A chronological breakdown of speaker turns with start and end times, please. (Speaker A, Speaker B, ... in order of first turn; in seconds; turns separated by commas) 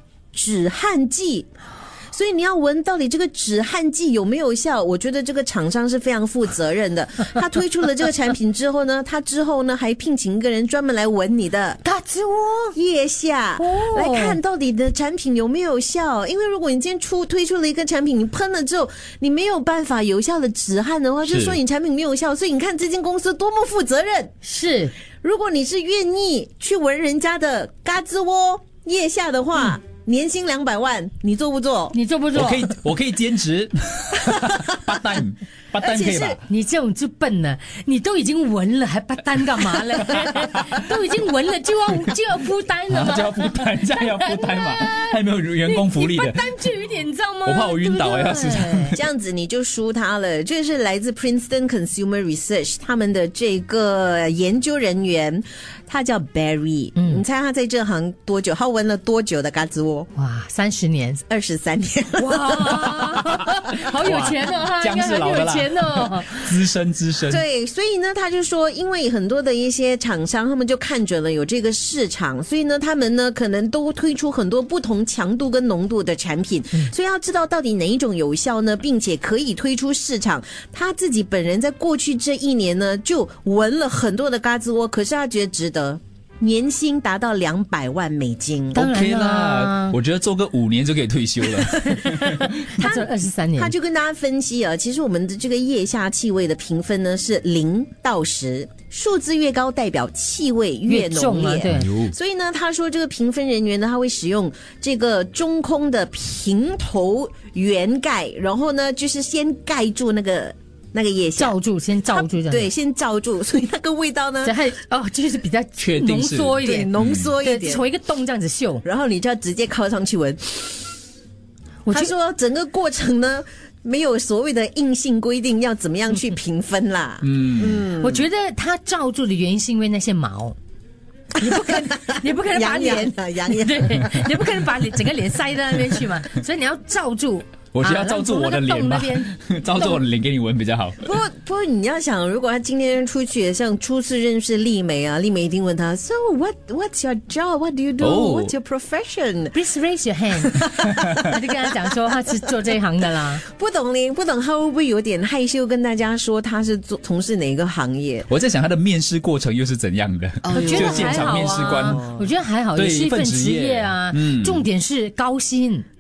Speaker A: 0.3-1.5, Speaker A: 2.1-11.8, Speaker B: 11.8-12.8, Speaker A: 12.8-24.3, Speaker B: 13.6-14.4, Speaker C: 21.2-21.6, Speaker B: 24.4-24.9, Speaker A: 25.2-31.9, Speaker B: 31.9-32.7, Speaker C: 32.3-36.4, Speaker A: 34.3-34.8, Speaker A: 35.8-36.4, Speaker B: 36.5-49.0, Speaker C: 42.9-46.5, Speaker C: 47.5-49.0, Speaker A: 48.9-60.1, Speaker B: 57.0-57.2, Speaker B: 60.1-61.2, Speaker A: 61.3-63.2, Speaker B: 62.2-66.7, Speaker C: 63.3-67.4, Speaker A: 67.3-88.9, Speaker B: 88.8-90.0, Speaker C: 88.8-92.7, Speaker B: 91.6-93.7, Speaker A: 92.8-114.6, Speaker B: 100.9-101.9, Speaker C: 101.7-102.1, Speaker B: 111.4-112.7, Speaker B: 114.4-116.9, Speaker C: 115.8-117.3, Speaker A: 116.6-117.8, Speaker B: 117.4-118.8, Speaker A: 118.8-120.8, Speaker B: 121.9-122.1, Speaker A: 121.9-128.2, Speaker C: 127.2-127.8, Speaker B: 128.0-130.6, Speaker B: 131.4-140.0, Speaker A: 131.4-134.3, Speaker C: 137.7-141.1, Speaker A: 141.0-149.6, Speaker C: 148.0-148.5, Speaker B: 149.5-153.4, Speaker A: 150.4-151.4, Speaker A: 153.4-158.3, Speaker C: 158.3-162.0, Speaker A: 160.4-162.3, Speaker B: 160.5-165.9, Speaker C: 162.8-164.7